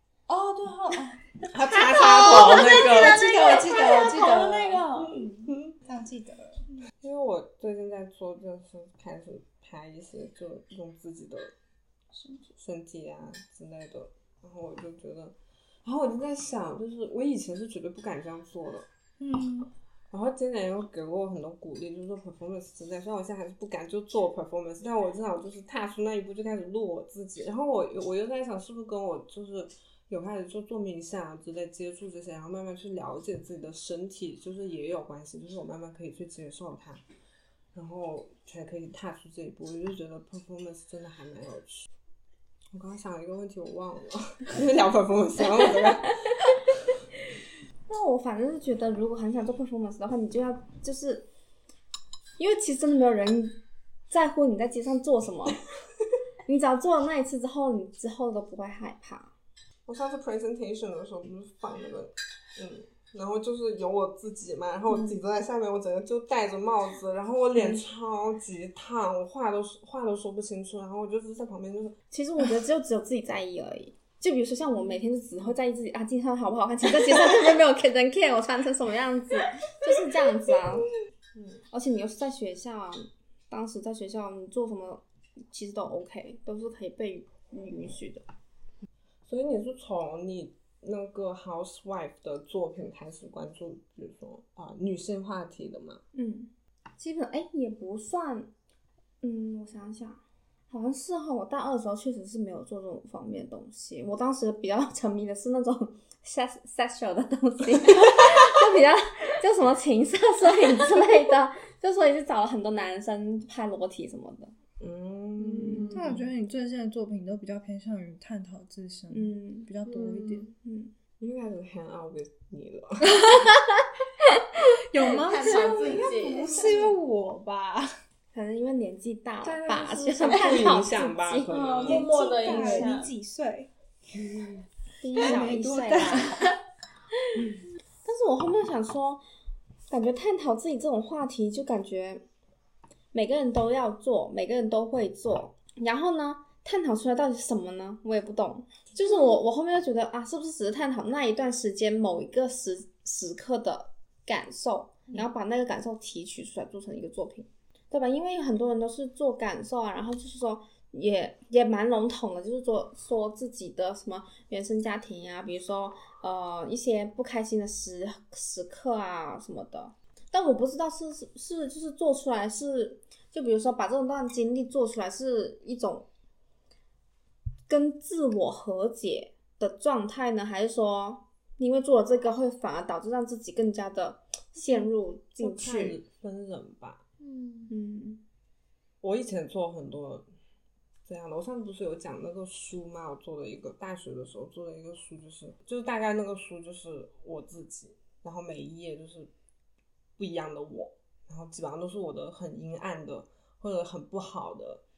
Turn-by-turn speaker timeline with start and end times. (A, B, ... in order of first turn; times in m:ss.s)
0:00.3-0:01.3 A
0:01.5-0:03.4 B
0:01.7-0:05.3 C
0:02.3-0:04.9 A
0:05.2-0:05.8 B
0:05.8-0:06.6 A
0:07.0-0:11.5 B
0:12.1-0:12.5 C
0:12.6-0:18.9 B
0:19.2-0:19.7 A
0:20.1-0:37.0 B
0:37.7-0:41.9 B
0:42.7-0:46.8 B
0:47.9-0:51.3 D
0:52.4-0:55.6 D
0:56.5-0:59.3 D
0:59.9-1:12.0 B
1:12.1-1:20.9 D
1:21.4-1:21.6 B
1:21.7-1:28.2 D
1:29.3-1:36.0 B
1:36.1-1:38.5 D
1:39.2-1:54.5 D
1:54.8-1:56.2 B
1:55.4-1:56.0 D
1:55.9-2:00.5 A
1:59.1-1:59.7 D
1:59.9-2:00.4 C
2:00.6-2:00.9 D
2:01.2-2:03.4 B
2:04.7-2:07.9 A
2:05.0-2:06.9 C
2:08.3-2:11.6 D
2:09.4-2:12.1 B
2:11.5-2:13.1 C
2:11.8-2:13.7 A
2:15.0-2:16.5 D
2:15.1-2:16.6 A
2:18.0-2:19.2 D
2:19.9-2:22.2 D
2:23.1-2:56.1 D
2:57.7-3:06.0 D
3:05.4-3:07.0 B
3:07.2-3:07.7 C
3:07.7-3:08.2 D
3:09.0-3:10.2 B
3:11.1-3:19.3 B
3:20.2-3:24.8 B